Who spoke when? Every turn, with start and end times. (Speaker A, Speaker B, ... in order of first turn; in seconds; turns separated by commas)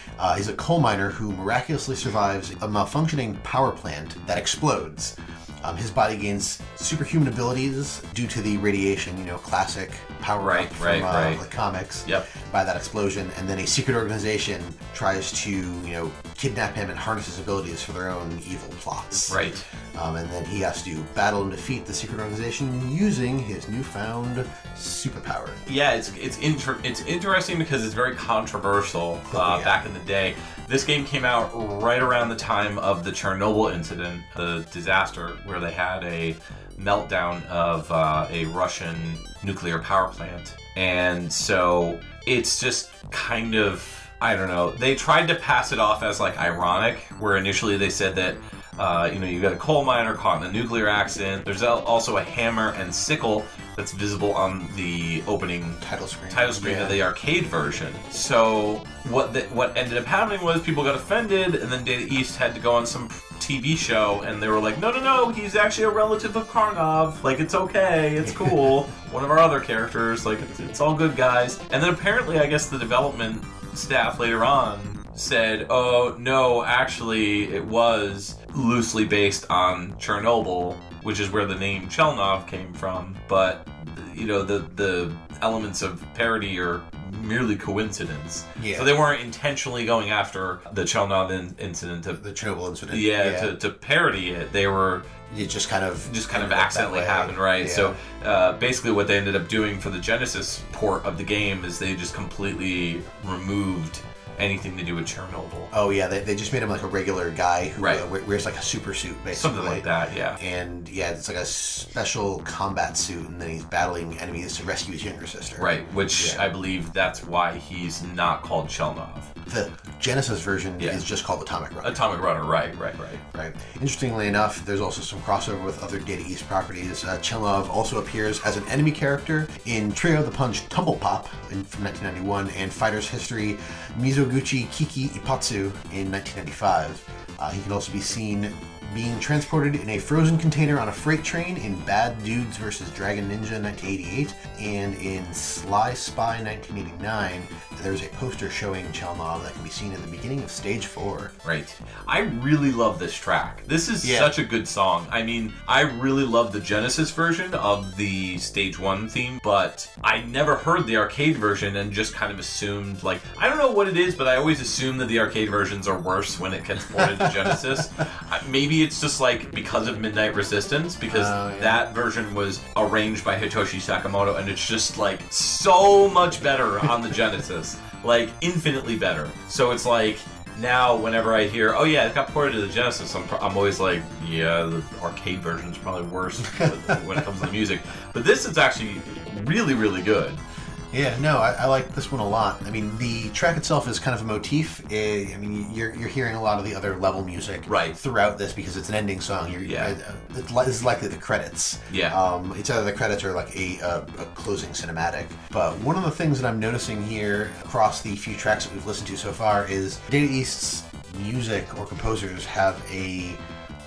Speaker A: 0.2-19.4, Speaker B: 10.4-11.4, Speaker B: 19.3-19.6, Speaker A: 19.9-25.6, Speaker B: 25.6-92.2, Speaker A: 29.3-29.8, Speaker A: 55.8-57.0, Speaker A: 68.2-68.8, Speaker A: 88.5-88.9, Speaker A: 92.2-93.5, Speaker B: 92.9-95.1, Speaker A: 95.3-98.0, Speaker B: 96.0-105.7, Speaker A: 105.7-116.4, Speaker B: 109.3-110.4, Speaker B: 115.6-119.3, Speaker A: 119.5-122.0, Speaker B: 121.8-123.2, Speaker A: 123.3-151.3, Speaker B: 151.4-190.4, Speaker A: 154.0-154.3, Speaker A: 166.9-167.6, Speaker A: 171.1-171.8, Speaker A: 186.4-187.4, Speaker A: 190.9-213.4, Speaker B: 197.7-198.0, Speaker B: 199.6-199.9, Speaker B: 201.9-202.2